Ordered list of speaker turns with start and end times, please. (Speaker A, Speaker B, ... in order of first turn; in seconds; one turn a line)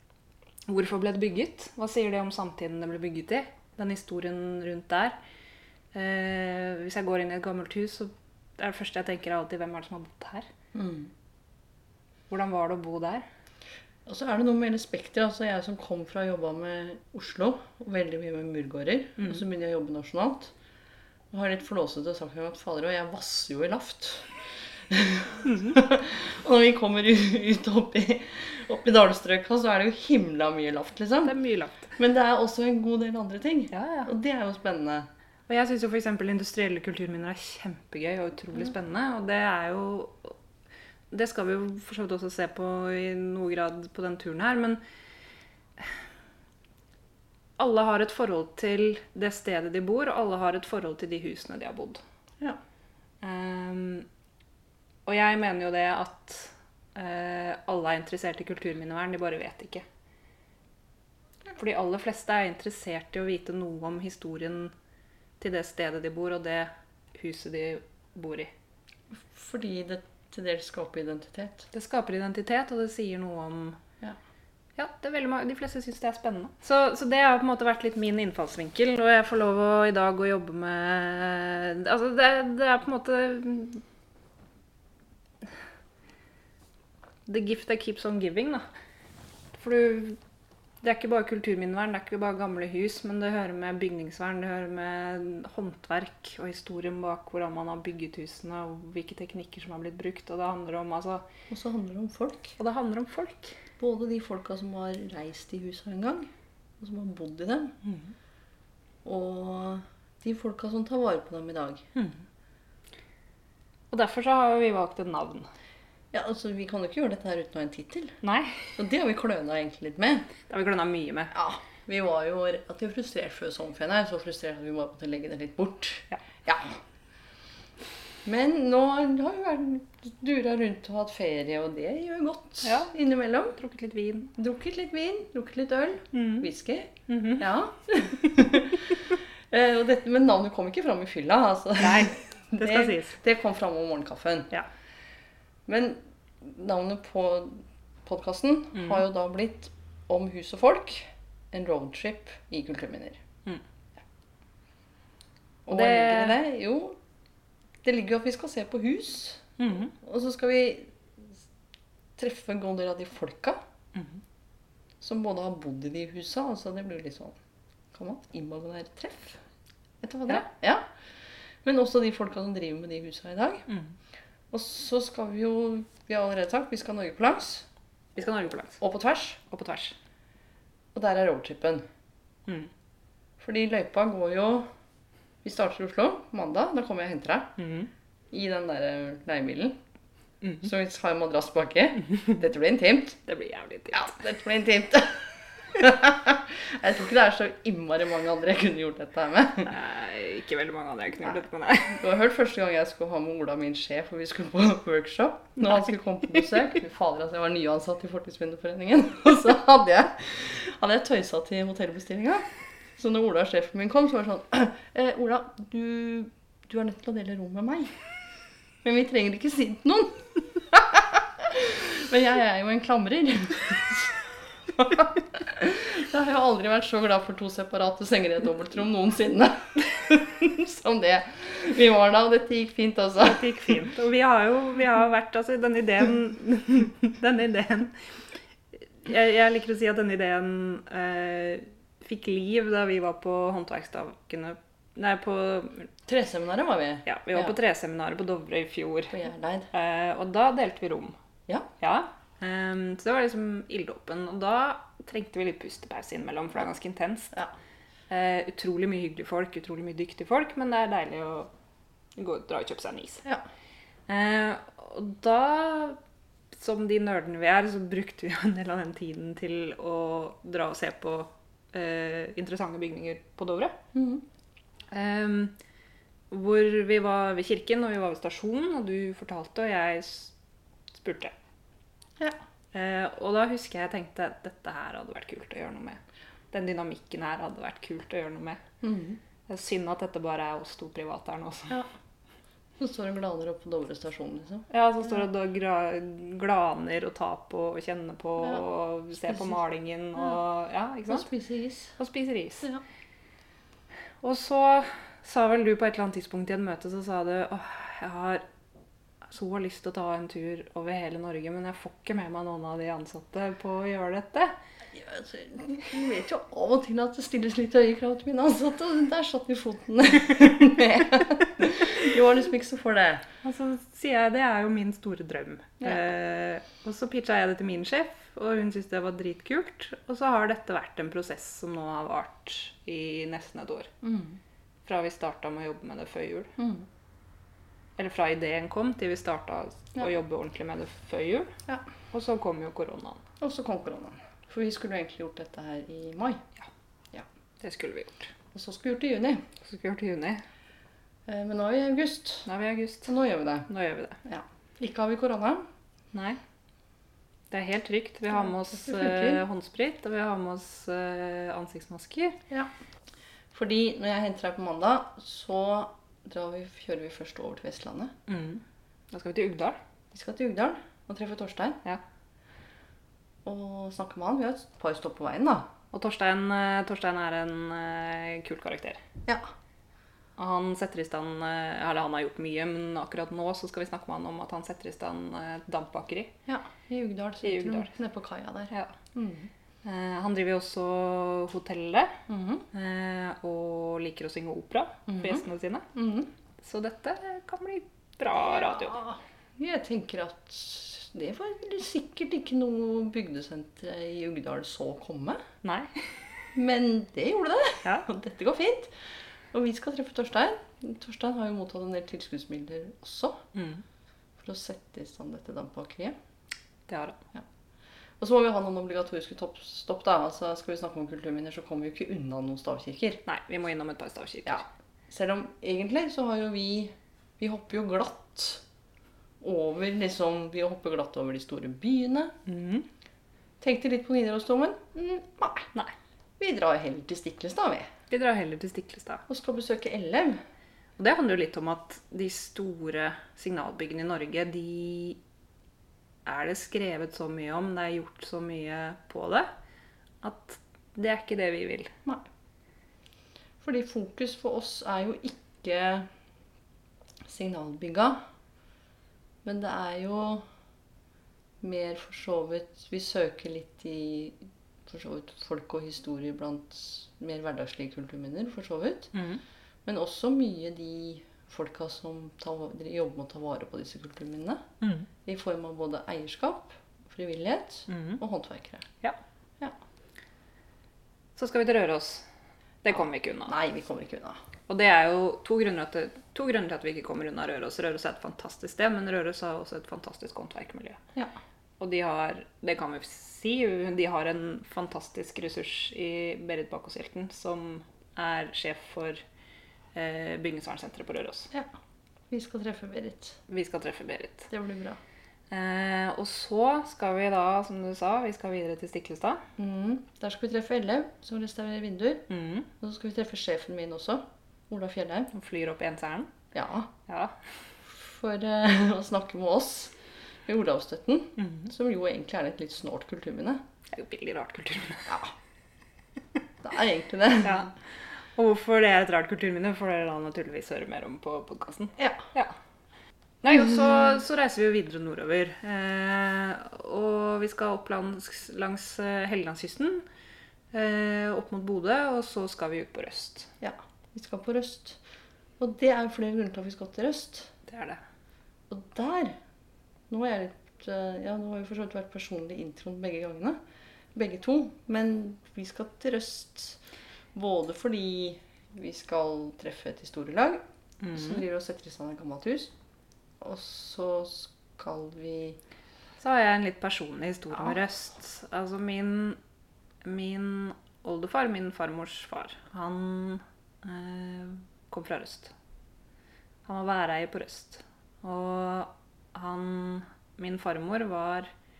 Speaker A: 0.7-5.2
Speaker A: 5.9-10.5
Speaker B: 10.7-11.1
Speaker A: 12.3-13.2
Speaker B: 14.1-20.5
Speaker B: 21.3-24.3
Speaker B: 24.9-31.3
Speaker A: 25.4-25.8
Speaker A: 31.2-31.9
Speaker B: 32.0-35.1
Speaker A: 33.7-34.1
Speaker A: 35.5-40.3
Speaker A: 41.1-44.8
Speaker A: 47.6-52.0
Speaker A: 53.2-54.0
Speaker A: 55.0-59.8
Speaker A: 61.5-64.7
Speaker A: 65.4-68.5
Speaker B: 69.1-71.7
Speaker A: 71.7-73.8
Speaker A: 74.8-83.8
Speaker A: 87.3-88.6
Speaker A: 89.5-90.2
Speaker A: 90.8-101.2
Speaker B: 101.5-102.5
Speaker A: 102.6-103.5
Speaker B: 103.8-106.3
Speaker B: 106.8-107.7
Speaker A: 107.8-108.1
Speaker B: 109.0-111.8
Speaker A: 111.9-112.2
Speaker A: 113.9-115.5
Speaker B: 116.1-118.2
Speaker A: 118.2-118.8
Speaker B: 118.8-120.3
Speaker A: 120.5-121.3
Speaker B: 121.3-126.8
Speaker B: 128.2-133.6
Speaker A: 132.6-132.9
Speaker A: 133.5-134.3
Speaker B: 134.3-144.5
Speaker A: 136.1-136.5
Speaker A: 137.1-137.4
Speaker A: 141.8-143.2
Speaker B: 145.7-153.2
Speaker A: 148.8-149.0
Speaker B: 155.7-157.0
Speaker A: 155.7-156.4
Speaker B: 157.8-161.3
Speaker A: 159.6-159.9
Speaker B: 162.2-163.6
Speaker A: 163.9-164.2
Speaker B: 165.0-167.3
Speaker B: 167.9-169.4
Speaker B: 170.0-170.9
Speaker B: 171.6-173.7
Speaker A: 173.7-173.9
Speaker B: 174.5-177.7
Speaker A: 178.2-178.8
Speaker B: 178.8-179.4
Speaker A: 179.5-179.9
Speaker B: 180.9-181.8
Speaker B: 183.4-184.7
Speaker B: 185.4-187.6
Speaker A: 187.6-187.9
Speaker B: 188.3-189.8
Speaker B: 190.6-193.2
Speaker A: 193.3-194.1
Speaker B: 193.9-199.7
Speaker A: 199.7-202.0
Speaker B: 201.9-212.4
Speaker B: 213.0-217.9
Speaker B: 218.8-233.5
Speaker A: 233.2-237.9
Speaker A: 239.0-245.9
Speaker B: 246.1-247.5
Speaker A: 247.1-249.2
Speaker B: 249.1-249.7
Speaker A: 249.7-251.2
Speaker A: 251.8-257.3
Speaker A: 258.1-261.5
Speaker A: 262.1-263.2
Speaker A: 264.1-266.0
Speaker A: 266.5-273.8
Speaker B: 273.9-274.2
Speaker A: 274.9-275.5
Speaker A: 276.3-280.3
Speaker A: 280.9-281.3
Speaker A: 282.7-286.0
Speaker A: 286.5-288.6
Speaker B: 288.8-289.2
Speaker A: 289.5-291.8
Speaker B: 292.8-294.6
Speaker A: 294.7-301.3
Speaker B: 299.2-299.5
Speaker B: 301.1-301.9
Speaker A: 302.0-302.7
Speaker A: 304.2-308.4
Speaker A: 309.3-314.5
Speaker B: 314.9-323.2
Speaker A: 323.4-333.9
Speaker B: 334.0-334.4
Speaker A: 334.9-336.5
Speaker B: 336.6-336.9
Speaker A: 338.0-341.5
Speaker A: 342.1-343.2
Speaker B: 343.4-346.4
Speaker A: 347.6-348.3
Speaker B: 348.5-349.4
Speaker A: 349.6-350.4
Speaker B: 351.3-352.5
Speaker A: 352.4-353.1
Speaker B: 353.1-353.7
Speaker A: 353.7-354.2
Speaker B: 354.2-355.6
Speaker A: 356.1-356.4
Speaker A: 357.5-362.4
Speaker B: 358.3-359.4
Speaker B: 363.5-368.1
Speaker A: 368.3-369.8
Speaker B: 370.1-371.8
Speaker B: 373.4-375.7
Speaker A: 375.9-379.0
Speaker A: 380.4-386.3
Speaker B: 386.5-389.5
Speaker A: 387.4-387.9
Speaker A: 389.8-392.2
Speaker B: 392.3-392.6
Speaker A: 392.7-395.9
Speaker B: 395.1-396.3
Speaker A: 396.6-399.0
Speaker B: 398.3-405.4
Speaker A: 405.6-405.9
Speaker B: 406.5-408.9
Speaker B: 409.5-413.4
Speaker A: 413.5-413.8
Speaker B: 414.4-416.1
Speaker A: 416.9-417.2
Speaker B: 418.2-423.2
Speaker A: 423.2-424.6
Speaker B: 424.4-428.6
Speaker B: 429.4-432.3
Speaker A: 432.4-432.9
Speaker B: 433.6-435.7
Speaker B: 436.4-437.9
Speaker A: 438.1-439.2
Speaker B: 439.3-440.4
Speaker A: 441.0-445.2
Speaker A: 446.2-449.5
Speaker A: 450.2-451.9
Speaker B: 453.6-456.1
Speaker B: 457.2-458.2
Speaker B: 459.4-460.4
Speaker B: 461.6-469.1
Speaker A: 469.1-469.4
Speaker B: 469.8-474.6
Speaker A: 474.8-475.1
Speaker B: 475.2-478.9
Speaker A: 477.9-478.2
Speaker A: 481.4-482.2
Speaker A: 482.8-483.6
Speaker B: 483.5-484.4
Speaker A: 484.7-491.0
Speaker A: 491.8-499.2
Speaker A: 499.9-501.5
Speaker B: 502.3-503.4
Speaker A: 503.5-504.5
Speaker B: 504.5-505.0
Speaker A: 505.5-509.4
Speaker B: 509.6-512.2
Speaker A: 512.3-512.7
Speaker B: 512.8-515.3
Speaker A: 515.3-516.3
Speaker B: 516.5-516.9
Speaker A: 517.1-517.4
Speaker B: 517.8-523.6
Speaker A: 521.4-521.7
Speaker A: 523.9-525.2
Speaker B: 525.1-525.3
Speaker B: 526.6-527.6
Speaker A: 527.4-527.7
Speaker A: 528.4-532.5
Speaker B: 532.0-532.2
Speaker A: 533.4-540.0
Speaker A: 540.7-543.5
Speaker B: 543.6-545.0
Speaker B: 545.6-547.5
Speaker A: 547.7-548.0
Speaker B: 548.7-549.4
Speaker B: 550.1-553.6
Speaker B: 554.1-556.8
Speaker B: 557.3-560.6
Speaker A: 561.0-561.4
Speaker B: 561.1-562.7
Speaker B: 563.4-565.6
Speaker A: 566.2-569.4
Speaker A: 570.0-575.5
Speaker A: 576.6-581.5